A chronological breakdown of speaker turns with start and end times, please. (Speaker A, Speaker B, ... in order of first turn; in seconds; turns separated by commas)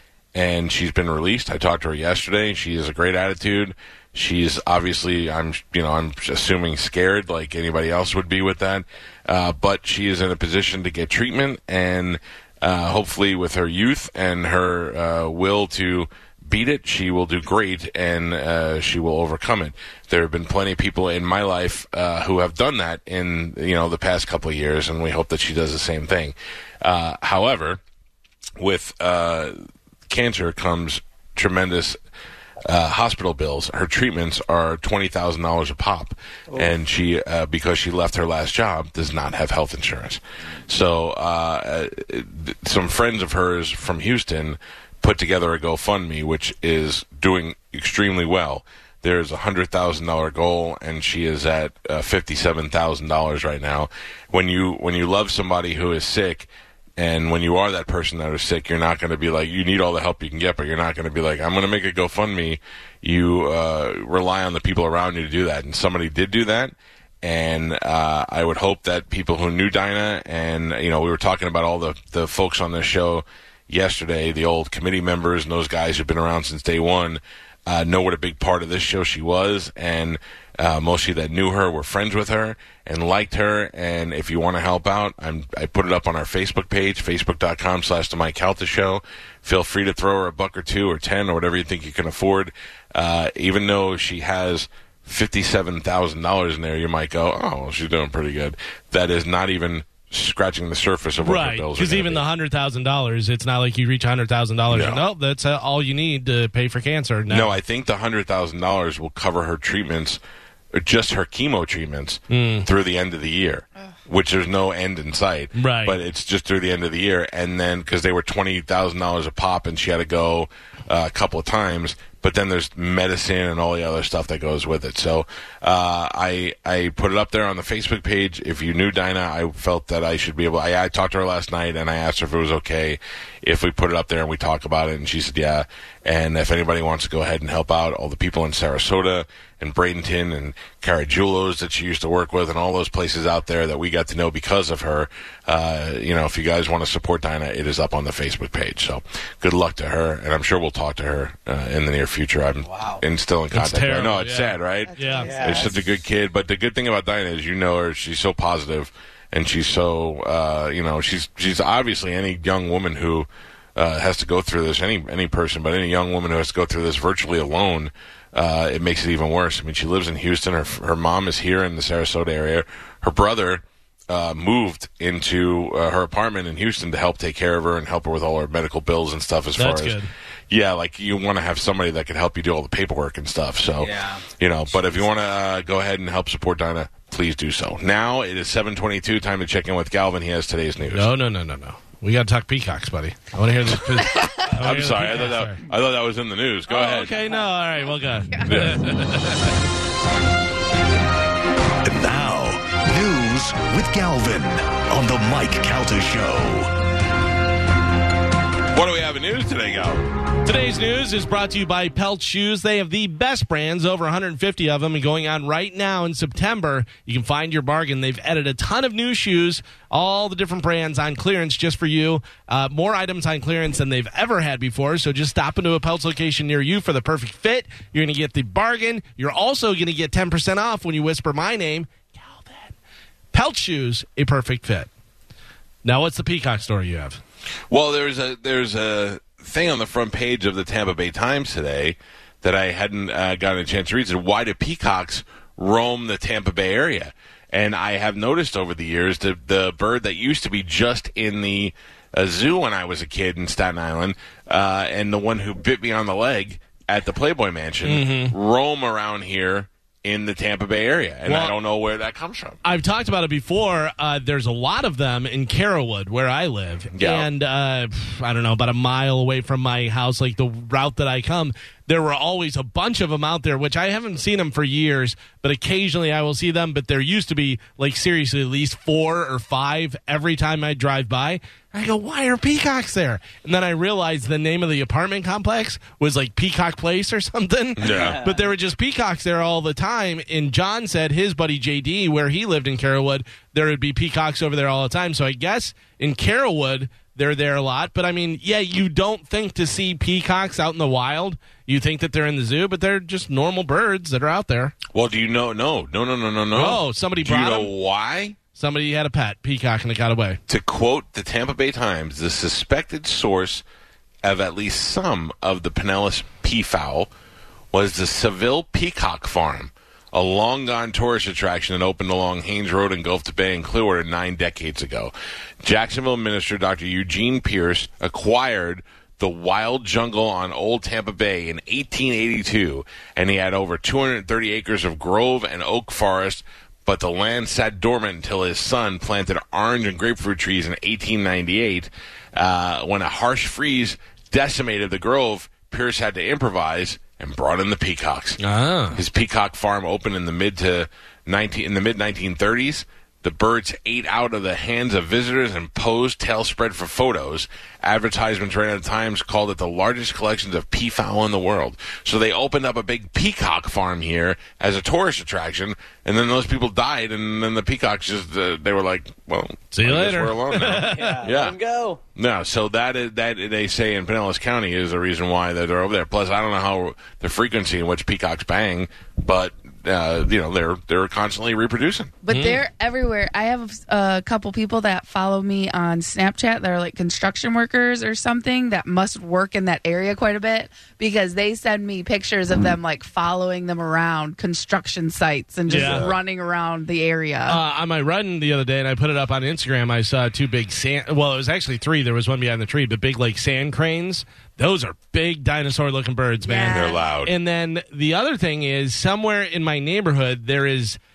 Speaker A: 0.3-27.8, Speaker A: 28.6-29.6, Speaker A: 30.1-32.0, Speaker A: 32.6-102.2, Speaker B: 101.2-107.5, Speaker A: 104.7-105.0, Speaker A: 107.3-110.2, Speaker A: 110.7-180.0, Speaker B: 112.3-112.7, Speaker B: 115.5-116.0, Speaker C: 152.6-153.0, Speaker B: 153.5-155.6, Speaker D: 154.9-155.7, Speaker C: 155.1-155.8, Speaker B: 179.6-180.1, Speaker A: 180.5-191.1, Speaker C: 183.8-184.2, Speaker B: 190.9-195.6, Speaker A: 193.9-197.2, Speaker B: 196.7-199.6, Speaker A: 198.4-198.9, Speaker E: 201.8-206.7, Speaker A: 208.7-210.1, Speaker B: 210.4-232.7, Speaker B: 233.3-234.9, Speaker B: 235.8-237.2, Speaker A: 237.7-262.6, Speaker B: 257.8-258.3, Speaker B: 261.2-261.6, Speaker B: 262.6-304.7, Speaker A: 266.9-267.3, Speaker A: 287.8-288.2, Speaker C: 287.8-288.5, Speaker A: 304.9-308.4, Speaker B: 306.5-307.7, Speaker B: 308.5-310.4, Speaker A: 310.5-313.6, Speaker A: 314.2-317.1, Speaker A: 317.7-325.1, Speaker A: 325.6-348.4, Speaker B: 348.4-349.0, Speaker A: 348.9-371.6, Speaker B: 369.7-371.2, Speaker C: 370.8-372.0, Speaker A: 372.1-382.1, Speaker D: 382.2-397.6, Speaker B: 382.3-382.6, Speaker B: 395.7-396.1, Speaker A: 395.8-396.1, Speaker B: 397.5-411.0, Speaker D: 406.4-407.0, Speaker A: 406.7-407.3